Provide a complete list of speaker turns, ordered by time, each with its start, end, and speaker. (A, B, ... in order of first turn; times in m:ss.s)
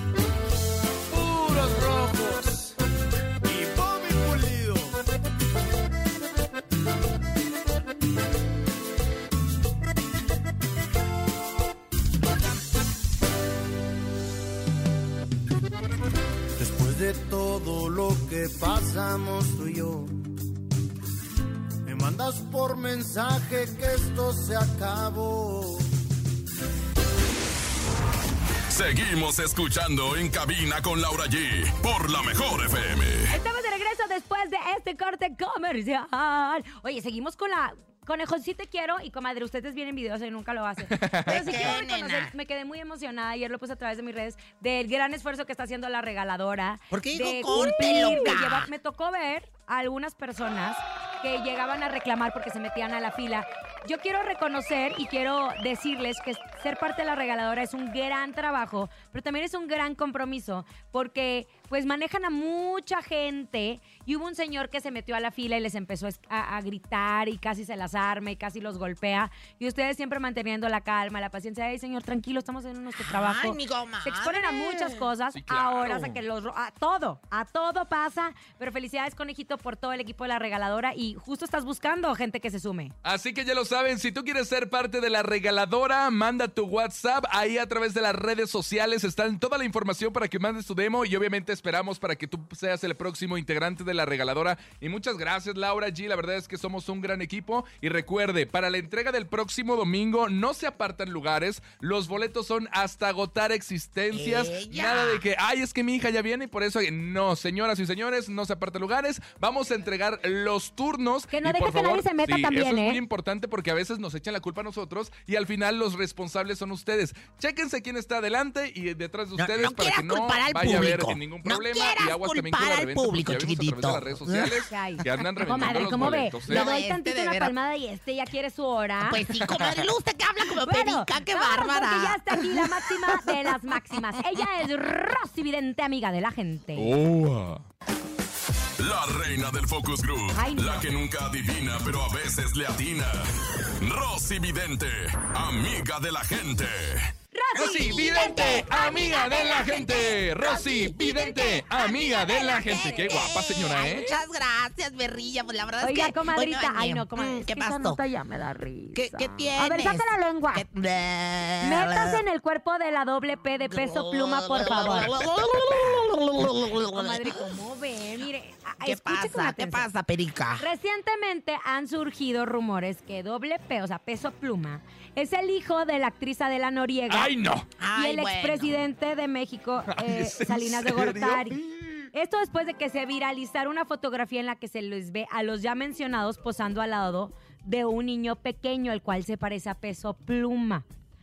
0:01.1-0:02.8 A
0:03.4-0:04.9 A
0:16.6-0:20.1 A
0:21.8-0:25.9 A
0:28.7-0:33.3 B
0:33.3-1:22.9 C
0:40.9-0:41.6 D
0:41.2-0:42.3 E
0:46.9-0:48.7 E
1:12.9-1:15.1 E
1:15.3-1:16.2 D
1:23.0-2:06.6 D
1:44.1-1:45.2 E
1:51.3-1:53.0 C
1:59.4-2:04.6 E
2:04.7-2:09.2 C
2:05.5-2:07.5 E
2:09.0-2:14.0 E
2:09.5-2:09.7 D
2:10.6-2:16.9 C
2:16.8-2:17.6 D
2:18.8-2:23.2 B
2:20.3-2:20.9 C
2:23.8-2:27.1 B
2:27.3-2:29.8 C
2:27.5-2:38.0 E
2:27.6-2:34.2 D
2:32.8-2:33.0 C
2:35.8-2:40.6 C
2:38.9-2:42.2 E
2:41.6-2:45.1 C
2:43.6-2:47.6 E
2:46.9-2:49.9 C
2:48.8-2:50.6 E
2:50.6-2:57.3 C
2:57.1-2:57.7 D
2:57.8-2:58.7 E
2:57.9-3:01.6 C
2:59.9-3:01.9 D
3:02.1-3:10.8 C